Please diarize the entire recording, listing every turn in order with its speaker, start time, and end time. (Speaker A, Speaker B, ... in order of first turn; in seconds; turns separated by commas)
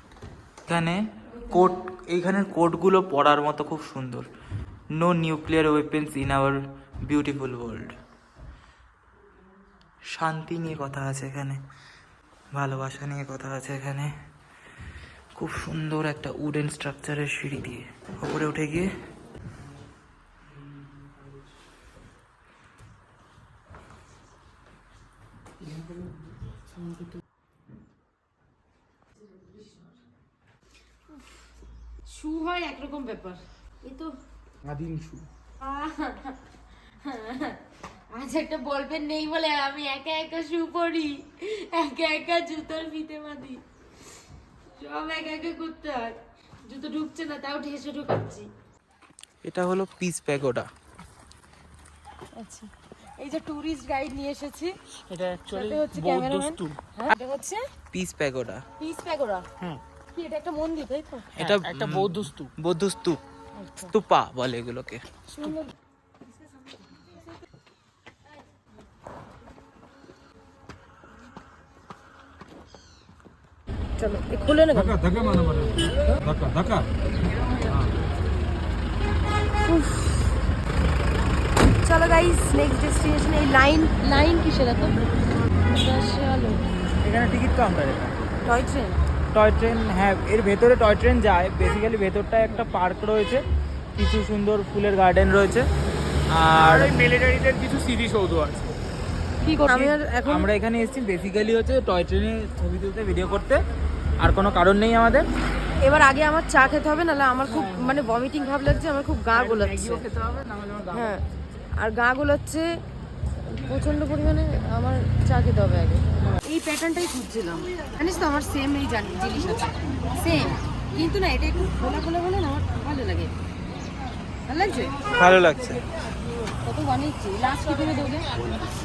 Speaker A: 0.7-4.3, Speaker B: 1.3-1.8, Speaker A: 5.0-7.9, Speaker A: 10.2-11.6, Speaker A: 12.5-14.1, Speaker A: 15.4-18.9, Speaker C: 25.6-26.1, Speaker B: 32.1-34.1, Speaker C: 34.6-35.2, Speaker B: 35.6-36.4, Speaker B: 37.0-37.6, Speaker B: 38.1-43.6, Speaker B: 44.7-48.5, Speaker A: 49.4-50.7, Speaker B: 52.4-54.8, Speaker C: 55.1-56.8, Speaker B: 55.5-57.6, Speaker A: 57.9-58.6, Speaker B: 58.8-59.5, Speaker B: 60.1-61.4, Speaker A: 61.4-63.2, Speaker C: 61.4-62.5, Speaker B: 63.5-63.9, Speaker A: 63.9-65.0, Speaker B: 65.3-65.7, Speaker B: 74.0-76.2, Speaker A: 76.3-76.8, Speaker B: 79.6-80.3, Speaker B: 81.8-85.0, Speaker B: 85.6-86.6, Speaker A: 87.0-88.1, Speaker B: 88.4-89.0, Speaker A: 89.3-93.4, Speaker A: 94.0-95.6, Speaker A: 96.3-96.9, Speaker C: 96.6-98.7, Speaker B: 99.4-100.5, Speaker A: 99.6-103.6, Speaker A: 104.2-105.2, Speaker B: 105.8-110.0, Speaker C: 107.5-108.0, Speaker C: 109.3-111.1, Speaker B: 110.9-111.2, Speaker B: 111.8-112.7, Speaker B: 113.5-123.3, Speaker B: 124.5-125.0, Speaker A: 125.1-125.8, Speaker B: 126.6-128.3